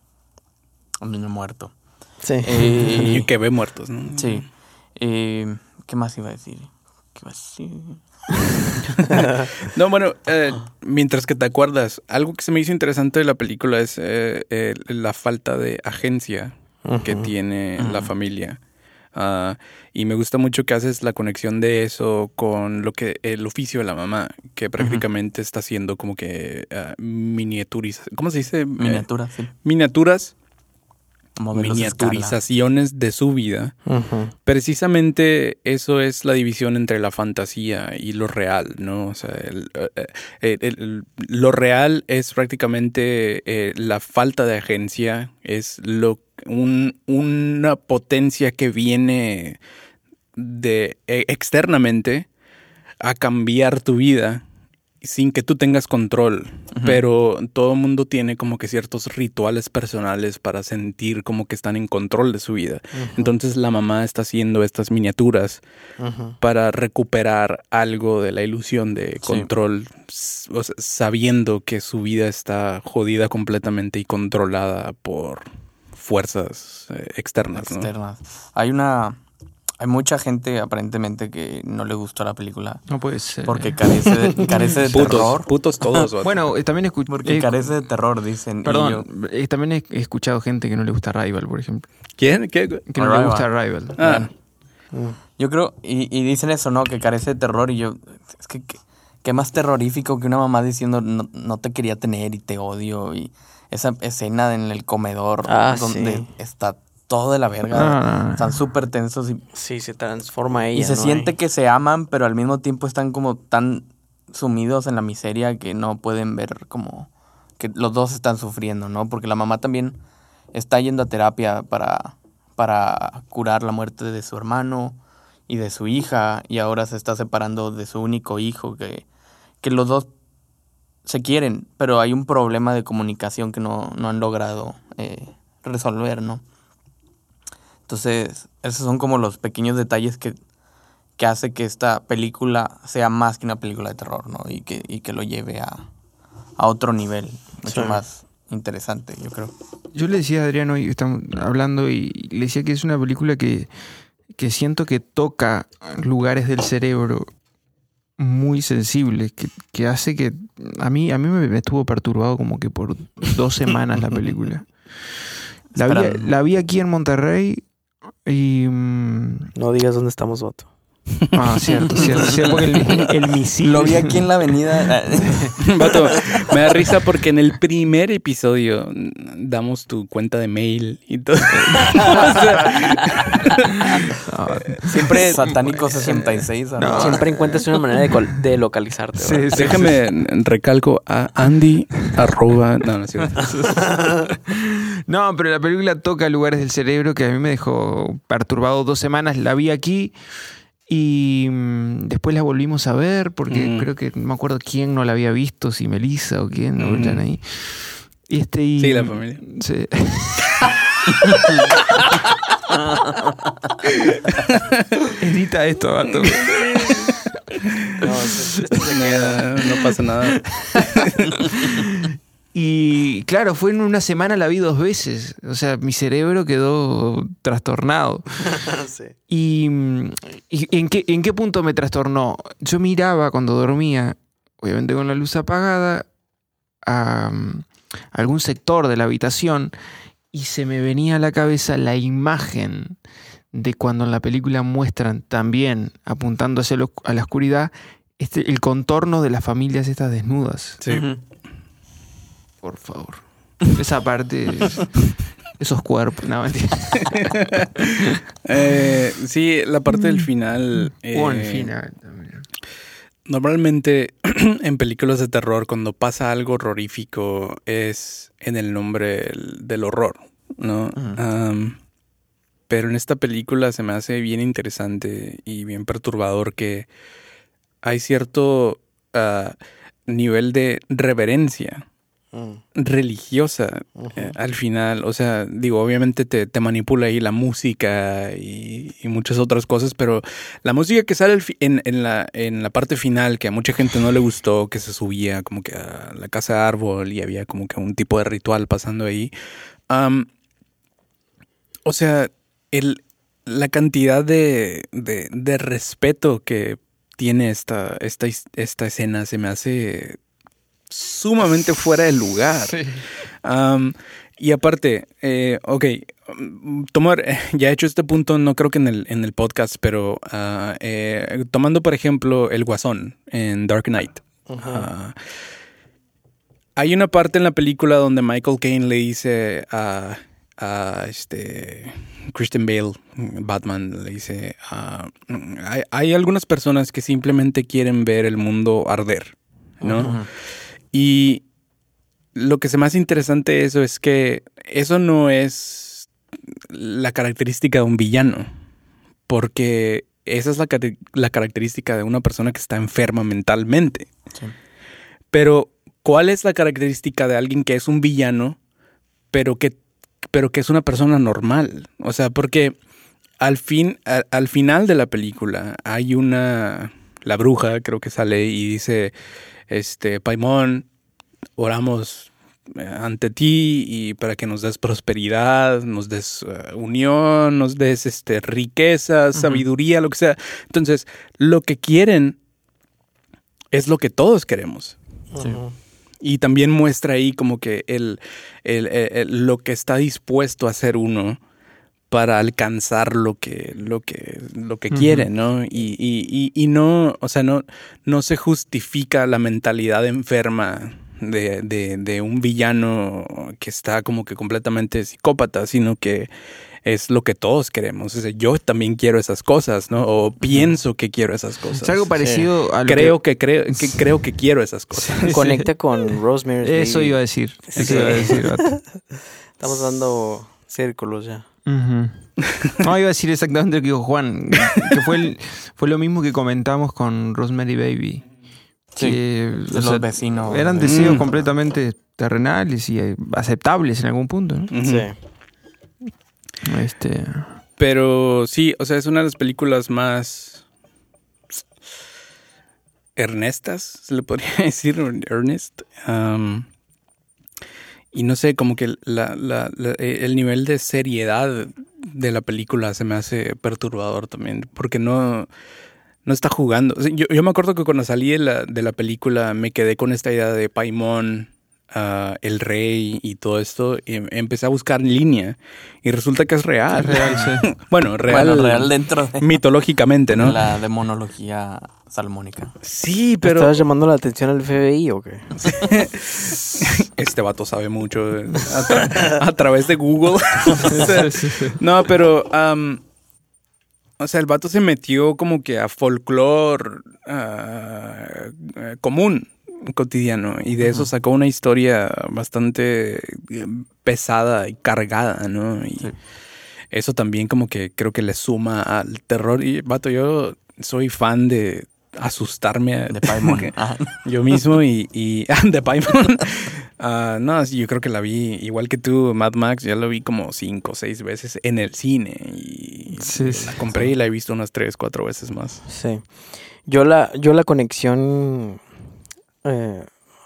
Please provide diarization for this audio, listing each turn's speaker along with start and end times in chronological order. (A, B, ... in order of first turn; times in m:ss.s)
0:01.0-0:01.7 A
0:02.2-0:02.5 B
0:02.4-0:03.3 A
0:02.9-0:04.4 C
0:04.1-0:09.3 A
0:09.1-0:18.6 C
0:16.8-0:17.3 B
0:17.8-0:18.1 A
0:19.1-0:29.0 C
0:24.8-0:25.0 A
0:28.8-0:29.5 A
0:29.6-0:30.3 C
0:31.4-0:32.4 A
0:31.5-0:33.8 C
0:33.9-0:34.3 B
0:34.4-0:49.6 C
0:50.4-0:52.3 C
0:53.0-0:54.4 C
0:55.0-1:05.6 C
0:56.7-0:57.0 A
1:02.9-1:03.3 B
1:06.0-1:06.3 B
1:06.4-1:17.9 C
1:09.2-1:09.5 A
1:17.5-1:19.2 A
1:19.8-1:22.9 A
1:22.9-1:23.8 D
1:23.4-1:26.0 A
1:24.9-1:26.4 C
1:26.2-1:27.8 D
1:27.1-1:29.0 A
1:28.6-1:31.9 D
1:32.2-1:32.8 C
1:32.9-1:34.3 D
1:33.0-1:33.5 A
1:34.0-1:34.3 C
1:34.9-1:35.2 B
1:35.4-1:49.4 A
1:45.5-1:46.3 B
1:47.7-1:48.6 D
1:49.5-1:51.3 B
1:50.7-2:00.0 A
2:00.5-2:09.1 A
2:09.6-2:10.1 A
2:11.0-2:16.4 A
2:17.9-2:20.4 A
2:21.2-2:25.9 A
2:26.6-2:29.5 A
2:27.6-2:28.0 B
2:29.9-2:33.7 D
2:34.3-2:37.3 D
2:38.2-2:44.9 D
2:45.7-2:46.3 A
2:45.7-2:47.6 D
2:48.2-2:49.5 D
2:49.6-2:50.7 B
2:51.3-2:54.2 D
2:53.6-2:56.4 A
2:55.6-3:03.8 C
3:02.0-3:02.4 B
3:04.2-3:05.1 D
3:04.6-3:05.8 C
3:04.8-3:05.4 B
3:05.1-3:07.2 A
3:06.8-3:07.6 D
3:06.9-3:09.7 B
3:09.2-3:09.9 D
3:09.5-3:13.6 C
3:13.4-3:20.2 D
3:20.9-3:30.6 D
3:23.5-3:23.9 C
3:26.8-3:27.2 C
3:28.8-3:29.4 C
3:34.4-3:34.8 C
3:35.2-3:37.2 D
3:36.1-3:37.0 C
3:38.0-3:39.4 B
3:38.8-3:41.3 C
3:40.2-3:40.8 D
3:41.4-3:48.5 D
3:48.5-3:49.1 B
3:49.3-3:56.1 D
3:56.8-3:59.7 D
4:00.3-4:03.0 D
4:03.5-4:10.8 D
4:10.8-4:11.1 C
4:10.9-4:11.2 A
4:12.6-4:15.0 D
4:15.6-4:18.1 D
4:17.1-4:17.6 C
4:18.4-4:21.7 C
4:21.1-4:22.4 D
4:23.3-4:31.8 C
4:32.7-4:36.9 C
4:37.8-4:39.6 C
4:40.1-4:41.8 C
4:42.3-4:42.6 B
4:42.7-4:59.3 C
4:44.0-4:44.3 B
4:59.9-5:00.3 C
5:01.8-5:10.2 C
5:10.9-5:25.2 C
5:12.7-5:13.0 D
5:24.5-5:24.9 B
5:26.8-5:40.2 C
5:39.8-5:40.1 B
5:40.0-5:40.3 A
5:40.9-5:41.4 C
5:42.3-5:46.1 C
5:46.7-5:48.5 C
5:49.3-5:54.1 C
5:55.3-5:58.6 C
5:59.3-5:59.8 C
6:00.3-6:02.8 C
6:03.4-6:09.1 C
6:09.7-6:10.8 C
6:11.6-6:22.4 C
6:19.3-6:19.6 A
6:23.7-6:25.0 C
6:25.3-6:25.7 B
6:26.2-6:31.4 C
6:32.1-6:46.3 C
6:34.9-6:35.3 D
6:46.8-6:52.1 C
6:51.7-6:53.2 D
6:52.8-6:55.4 C
6:53.7-6:54.1 D
6:55.0-6:55.6 D
6:55.2-6:57.2 B
6:56.6-6:58.8 D
6:57.7-6:58.7 B
6:57.7-6:58.4 C
6:59.6-7:01.5 B
7:01.6-7:08.2 D
7:08.9-7:11.4 A
7:09.0-7:14.7 D
7:10.8-7:11.2 C
7:14.7-7:15.1 C
7:14.8-7:15.1 B
7:16.6-7:17.6 D
7:17.8-7:20.6 C
7:23.2-7:26.7 C
7:28.1-7:35.5 C
7:36.2-7:50.6 C
7:46.9-7:47.7 D
7:48.3-7:49.6 A
7:50.3-7:52.7 A
7:52.8-7:53.8 C
7:53.4-7:55.6 B
7:55.6-7:55.9 A
7:55.8-8:03.0 C
8:00.9-8:01.8 D
8:04.2-8:16.1 C
8:10.8-8:11.1 A
8:16.9-8:35.8 C
8:23.1-8:24.6 A
8:33.2-8:33.8 D
8:35.9-8:38.8 B
8:39.6-8:40.1 B